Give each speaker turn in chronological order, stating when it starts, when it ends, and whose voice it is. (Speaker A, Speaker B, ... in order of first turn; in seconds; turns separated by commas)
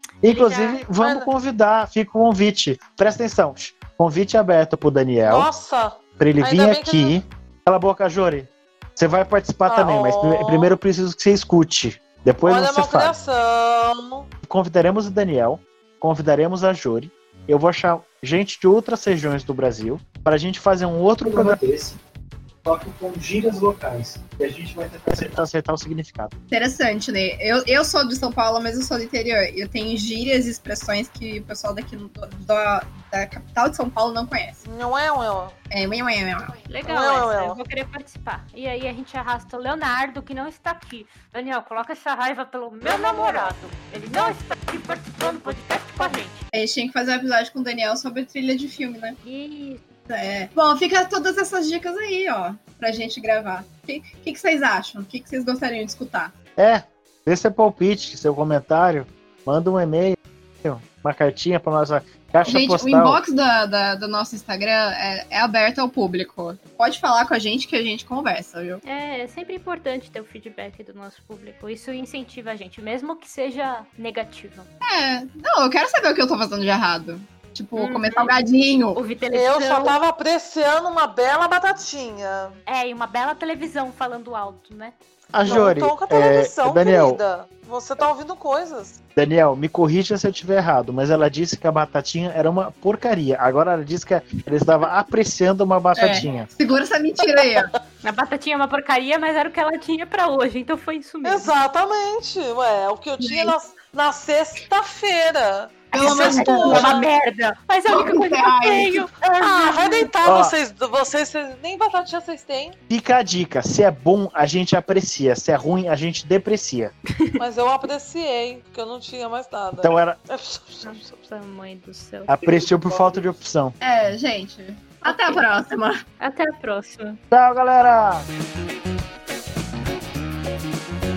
Speaker A: 0.2-5.5, Speaker B: 0.3-0.8, Speaker C: 0.9-1.3, Speaker C: 5.2-7.2, Speaker A: 6.2-13.2, Speaker C: 9.7-10.8, Speaker C: 12.4-14.3, Speaker A: 14.4-21.6, Speaker D: 21.2-22.0, Speaker D: 22.6-25.4, Speaker A: 25.1-26.3, Speaker E: 26.5-34.6, Speaker C: 34.6-35.5, Speaker E: 35.7-36.6, Speaker B: 36.7-46.5, Speaker C: 36.9-37.6, Speaker C: 42.8-43.6, Speaker C: 44.1-46.2, Speaker E: 46.5-49.2, Speaker B: 49.2-49.8, Speaker E: 50.1-56.3, Speaker A: 56.6-63.2, Speaker E: 62.5-68.8, Speaker B: 68.8-74.7, Speaker E: 74.8-79.0, Speaker B: 77.8-78.4, Speaker B: 79.0-80.0, Speaker C: 79.3-82.6, Speaker B: 82.7-85.0, Speaker A: 85.3-87.2, Speaker C: 85.4-89.0, Speaker A: 89.2-96.5, Speaker E: 96.0-97.7, Speaker C: 97.4-97.7, Speaker B: 98.0-101.5, Speaker C: 101.2-107.1, Speaker E: 103.2-103.5, Speaker E: 105.9-107.1, Speaker B: 106.0-110.1, Speaker E: 107.9-109.1, Speaker C: 109.3-112.8, Speaker A: 110.2-110.5, Speaker A: 112.9-116.9, Speaker C: 117.4-121.0, Speaker A: 119.8-120.2, Speaker B: 120.8-122.3, Speaker A: 122.3-123.8, Speaker D: 122.4-123.4, Speaker E: 123.8-126.0, Speaker B: 125.1-125.4, Speaker B: 126.2-127.2, Speaker A: 127.3-128.3